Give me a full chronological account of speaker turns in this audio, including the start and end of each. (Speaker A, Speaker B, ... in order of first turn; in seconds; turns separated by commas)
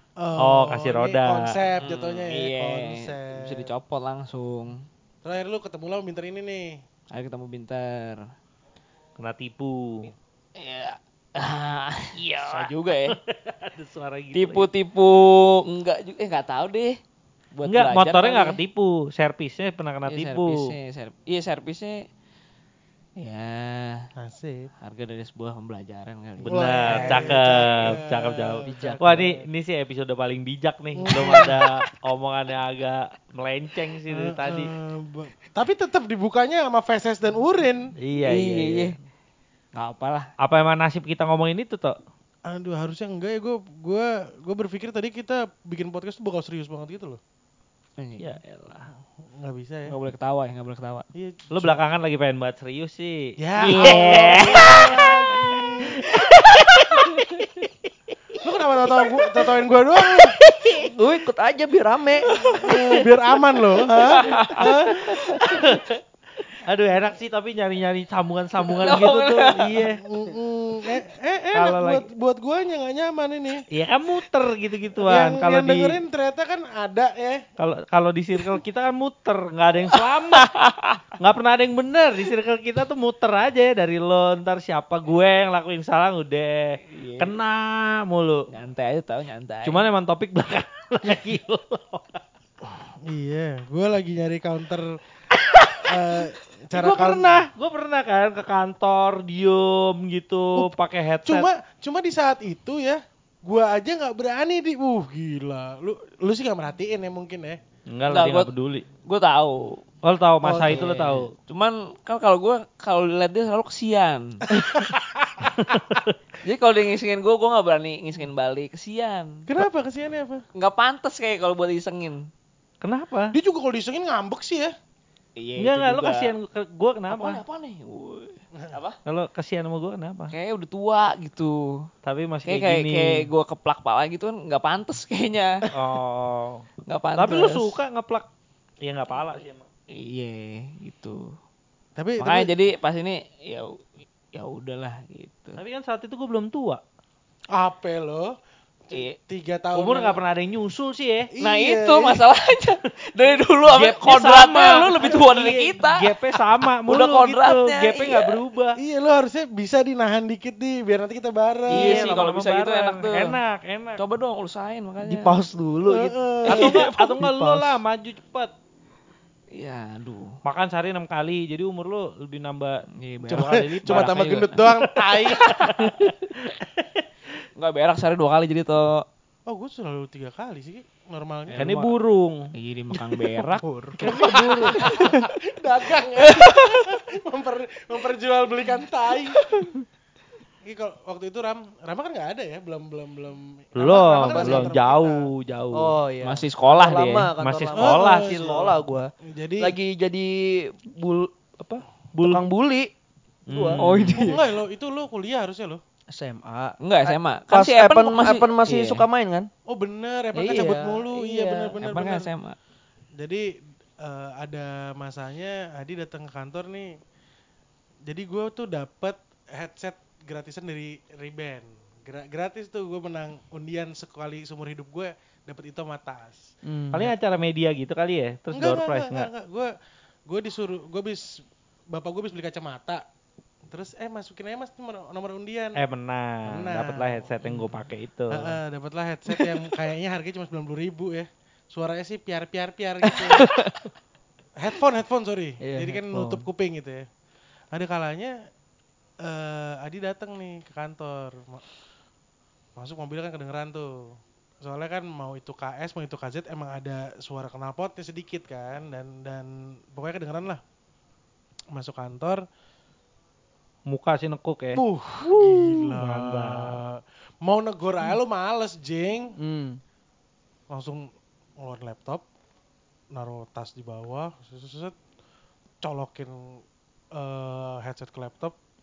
Speaker A: 0.2-3.7, Speaker B: 0.4-1.5, Speaker C: 1.8-4.8, Speaker A: 5.2-6.8, Speaker C: 7.1-8.3, Speaker B: 9.2-10.1, Speaker C: 10.6-13.2, Speaker B: 12.2-14.7, Speaker C: 14.3-17.0, Speaker C: 17.5-18.6, Speaker B: 17.6-20.6, Speaker C: 20.1-22.1, Speaker C: 23.2-24.1, Speaker A: 24.2-24.7, Speaker C: 24.8-27.7, Speaker B: 26.4-34.7, Speaker A: 26.4-29.4, Speaker D: 28.6-29.1, Speaker A: 30.9-31.6, Speaker C: 31.1-31.7, Speaker A: 34.1-37.9, Speaker B: 38.0-39.0, Speaker C: 38.2-39.0, Speaker C: 39.7-40.3, Speaker B: 40.4-42.0, Speaker A: 42.5-47.2, Speaker C: 48.0-48.4, Speaker B: 48.2-48.9, Speaker A: 49.3-50.0, Speaker C: 49.9-51.0, Speaker A: 51.1-51.8, Speaker B: 51.5-55.0, Speaker A: 53.4-56.1, Speaker C: 53.6-55.5, Speaker B: 56.0-57.7, Speaker C: 56.1-57.4, Speaker A: 58.4-60.4, Speaker C: 60.2-60.8, Speaker D: 60.7-62.4, Speaker C: 62.3-63.0, Speaker A: 62.5-65.4, Speaker C: 64.0-65.5, Speaker B: 65.4-66.0, Speaker B: 66.5-70.0, Speaker C: 68.8-69.8, Speaker A: 69.9-73.7, Speaker B: 71.5-72.1, Speaker B: 73.7-76.0, Speaker A: 75.0-77.4, Speaker B: 77.6-80.5, Speaker C: 80.3-81.0, Speaker B: 81.2-88.5, Speaker C: 86.9-87.3, Speaker C: 88.5-89.8, Speaker B: 89.6-92.2, Speaker A: 92.6-95.0, Speaker B: 95.3-96.0, Speaker A: 95.8-97.5, Speaker B: 96.7-101.5, Speaker A: 100.5-107.6, Speaker B: 107.9-108.8, Speaker C: 108.1-108.5, Speaker C: 109.0-109.8, Speaker B: 110.0-111.3, Speaker A: 110.4-111.0, Speaker C: 110.6-114.4, Speaker A: 114.5-115.5, Speaker B: 115.6-116.2, Speaker C: 116.4-119.4, Speaker A: 119.5-120.4, Speaker C: 120.5-122.3, Speaker B: 122.8-123.3, Speaker A: 123.3-124.7, Speaker C: 125.4-126.3, Speaker B: 125.6-127.4, Speaker C: 127.1-129.0, Speaker B: 129.1-130.3, Speaker C: 130.3-131.9, Speaker B: 132.0-133.3, Speaker C: 132.4-135.6, Speaker B: 135.7-136.7, Speaker C: 136.9-137.8, Speaker B: 137.2-138.3, Speaker B: 138.8-139.7, Speaker C: 139.9-141.3, Speaker A: 142.0-142.5, Speaker C: 142.2-145.6, Speaker B: 145.6-146.8, Speaker A: 147.5-148.3, Speaker A: 148.9-150.2, Speaker B: 149.7-151.3, Speaker A: 151.3-152.2, Speaker C: 151.4-156.1, Speaker B: 153.7-158.8, Speaker C: 156.9-158.4, Speaker A: 158.8-162.1, Speaker C: 161.7-163.4, Speaker B: 161.7-164.0, Speaker C: 164.0-165.4, Speaker D: 165.0-167.8, Speaker A: 165.9-166.8, Speaker B: 166.5-168.5, Speaker C: 169.5-170.3, Speaker B: 170.4-177.1, Speaker C: 173.0-174.7, Speaker A: 173.3-175.6, Speaker C: 175.4-175.8, Speaker C: 177.6-179.0, Speaker A: 179.5-181.7, Speaker C: 181.5-181.9, Speaker B: 181.6-182.5, Speaker C: 182.5-185.3, Speaker A: 183.6-189.5, Speaker B: 184.0-184.8, Speaker C: 186.2-186.9, Speaker A: 190.6-195.3, Speaker B: 193.8-195.9, Speaker D: 194.3-194.7, Speaker D: 195.7-202.9, Speaker C: 196.2-197.3, Speaker B: 197.4-198.7, Speaker A: 197.7-199.7, Speaker B: 202.1-202.4, Speaker B: 203.5-204.3, Speaker D: 203.5-203.8, Speaker C: 203.8-204.4, Speaker A: 204.1-205.8, Speaker D: 206.1-209.5, Speaker C: 206.8-209.0, Speaker A: 209.7-212.3, Speaker D: 210.3-211.8, Speaker C: 211.8-212.6, Speaker A: 213.2-217.0, Speaker A: 218.1-226.4, Speaker D: 226.6-227.1, Speaker B: 226.9-229.3, Speaker A: 228.5-229.7, Speaker A: 230.3-233.0, Speaker A: 233.7-235.8, Speaker B: 235.8-238.6, Speaker A: 236.4-237.6, Speaker A: 238.3-243.5, Speaker A: 244.6-247.1, Speaker D: 245.6-246.4, Speaker A: 247.7-248.4, Speaker A: 249.2-251.7, Speaker A: 252.8-260.6, Speaker A: 261.7-262.4, Speaker B: 263.9-264.8, Speaker A: 264.7-269.4, Speaker B: 265.9-266.8, Speaker D: 269.4-269.8, Speaker A: 270.7-272.2, Speaker A: 273.1-274.9, Speaker A: 275.8-276.6, Speaker A: 277.1-278.6